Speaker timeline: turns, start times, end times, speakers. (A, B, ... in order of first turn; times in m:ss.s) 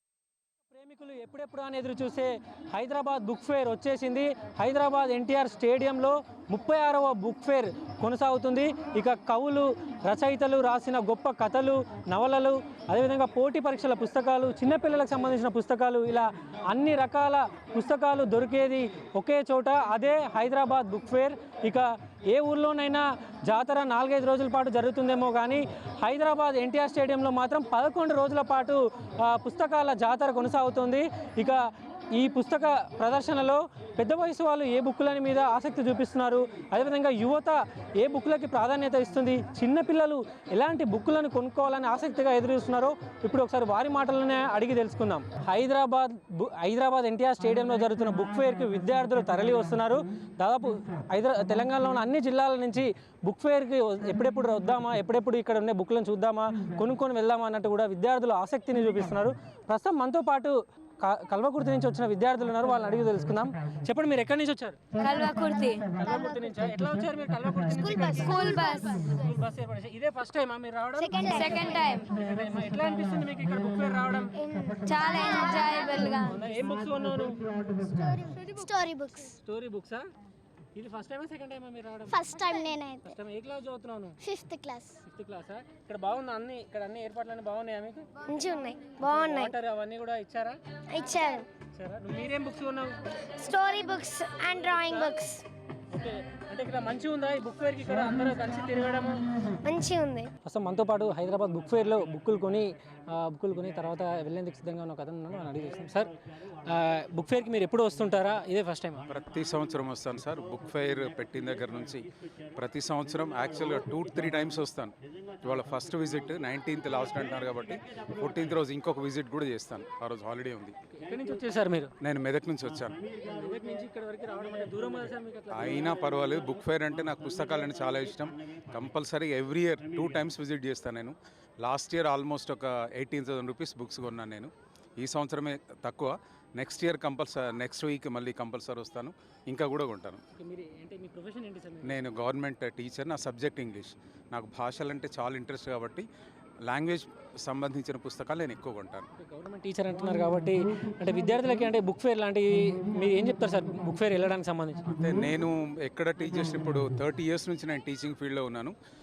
0:00.7-0:31.6 A
0:32.1-1:04.8 A
1:05.0-1:06.0 B
1:06.0-1:14.3 A
1:06.0-1:06.5 C
1:07.7-1:08.8 C
1:08.1-1:09.1 B
1:11.0-1:11.9 C
1:11.3-1:12.1 B
1:14.3-1:16.1 C
1:14.8-1:16.8 B
1:15.1-1:17.4 A
1:17.9-1:19.4 C
1:18.0-1:18.6 A
1:19.4-1:20.1 A
1:20.7-1:24.2 A
1:22.1-1:23.2 C
1:24.2-1:25.0 C
1:25.0-1:28.1 A
1:28.2-1:29.5 C
1:29.0-1:30.6 A
1:30.9-1:31.5 C
1:31.7-1:33.0 A
1:33.4-1:35.4 C
1:34.5-1:35.2 A
1:35.9-1:39.2 A
1:39.6-1:40.3 C
1:40.4-1:46.1 A
1:46.6-1:49.0 A
1:49.1-2:00.8 D
2:00.9-2:01.9 A
2:02.0-2:03.0 D
2:03.2-2:06.0 A
2:05.5-2:20.2 D
2:20.3-2:22.0 A
2:21.8-2:26.1 D
2:26.7-2:29.1 D
2:29.2-2:34.8 A
2:34.9-2:38.7 D